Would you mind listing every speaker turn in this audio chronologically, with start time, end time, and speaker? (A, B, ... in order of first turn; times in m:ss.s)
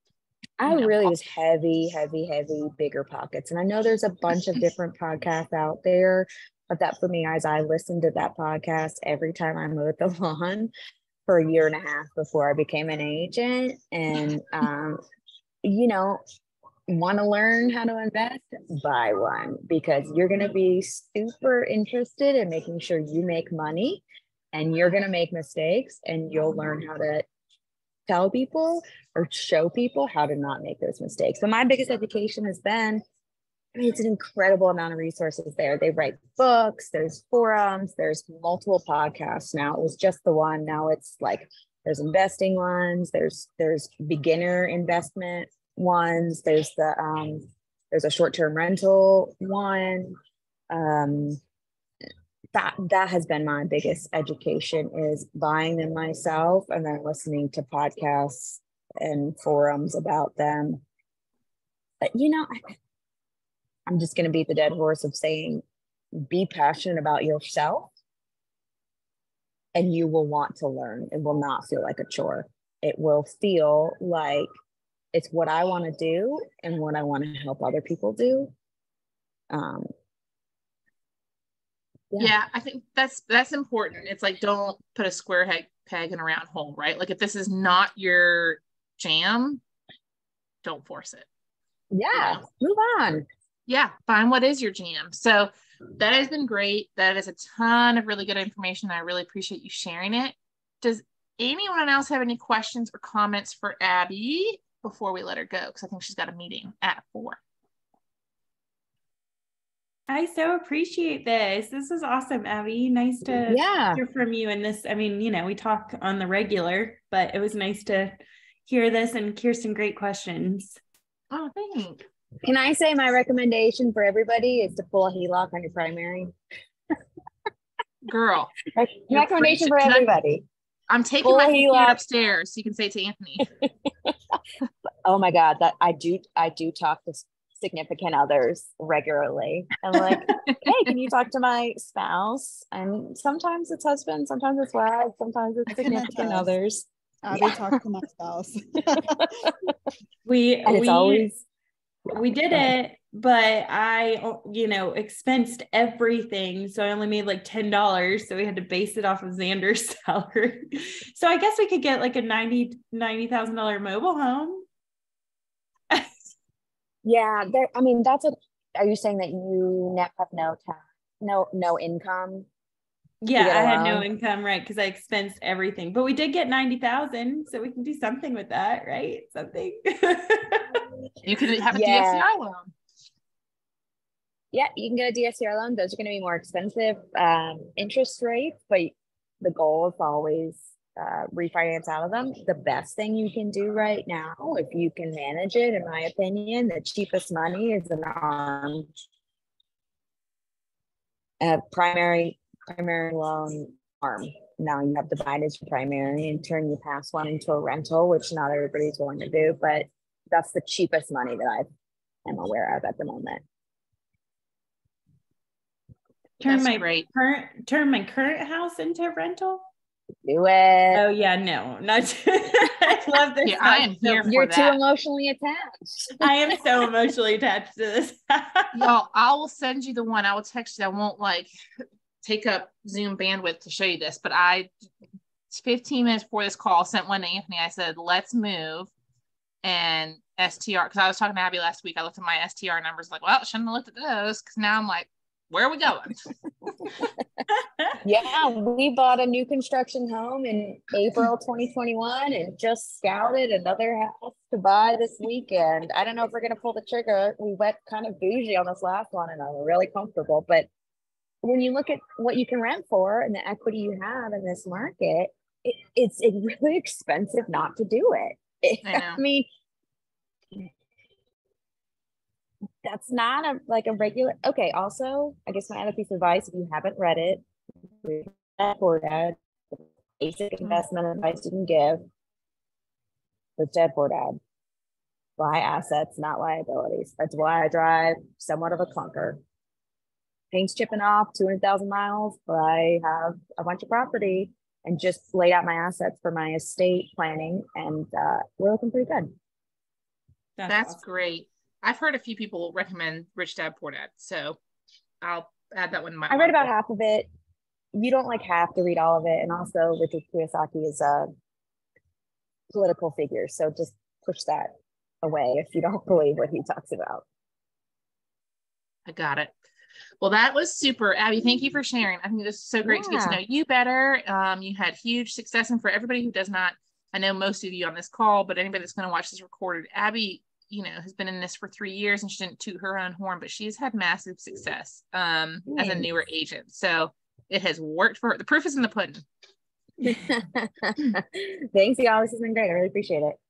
0:00.6-0:10.7 A
0:00.6-0:01.1 B
0:11.3-0:15.0 A
0:15.6-0:16.2 A
0:16.9-0:27.2 A
0:28.1-0:33.0 A
0:33.7-0:50.2 A
0:50.7-0:51.4 A
0:52.5-1:00.8 A
1:02.0-1:02.5 A
1:03.9-1:05.6 A
1:06.1-1:07.9 A
1:09.7-1:14.5 A
1:15.1-1:18.5 A
1:19.5-1:19.9 A
1:22.2-1:29.6 B
1:30.6-1:31.3 B
1:31.9-1:33.2 A
1:32.1-1:32.4 B
1:33.7-1:47.4 B
1:50.1-2:00.8 C
1:53.5-1:54.0 A
2:01.3-2:02.0 B
2:02.4-2:06.3 A
2:08.0-2:08.5 B
2:08.7-2:10.4 A
2:09.1-2:10.1 B
2:10.9-2:13.5 B
2:11.2-2:12.0 A
2:13.6-2:14.4 A
2:15.0-2:27.8 A
2:25.7-2:26.5 D
2:27.2-2:29.5 D
2:30.2-2:31.3 C
2:30.6-2:31.4 A
2:32.1-2:44.6 C
2:47.0-2:52.5 A
2:53.2-3:00.8 C
2:53.4-2:54.1 A
3:01.2-3:02.7 B
3:01.7-3:02.2 A
3:04.5-3:18.9 A
3:21.4-3:31.7 A
3:32.2-3:33.4 A
3:36.4-3:39.6 C
3:36.4-3:37.0 B
3:40.2-3:41.0 A
3:40.9-3:44.3 C
3:43.4-3:44.8 B
3:44.3-3:46.2 A
3:46.2-3:48.8 C
3:48.7-3:51.5 B
3:52.2-3:54.7 B
3:55.5-3:58.9 B
3:59.6-4:06.2 B
4:08.0-4:20.7 A
4:21.4-4:29.5 A
4:28.8-4:29.2 B
4:32.8-4:37.4 A
4:38.0-4:42.0 A
4:43.6-4:44.4 A
4:45.4-4:49.4 A
4:50.5-4:59.3 A
5:00.6-5:01.0 C
5:00.7-5:04.6 B
5:05.2-5:06.7 B
5:06.3-5:07.3 A
5:07.9-5:11.3 A
5:12.7-5:17.2 A
5:19.0-5:19.5 B
5:20.2-5:39.2 B
5:22.8-5:23.4 A
5:35.7-5:36.1 A
5:40.0-5:43.4 A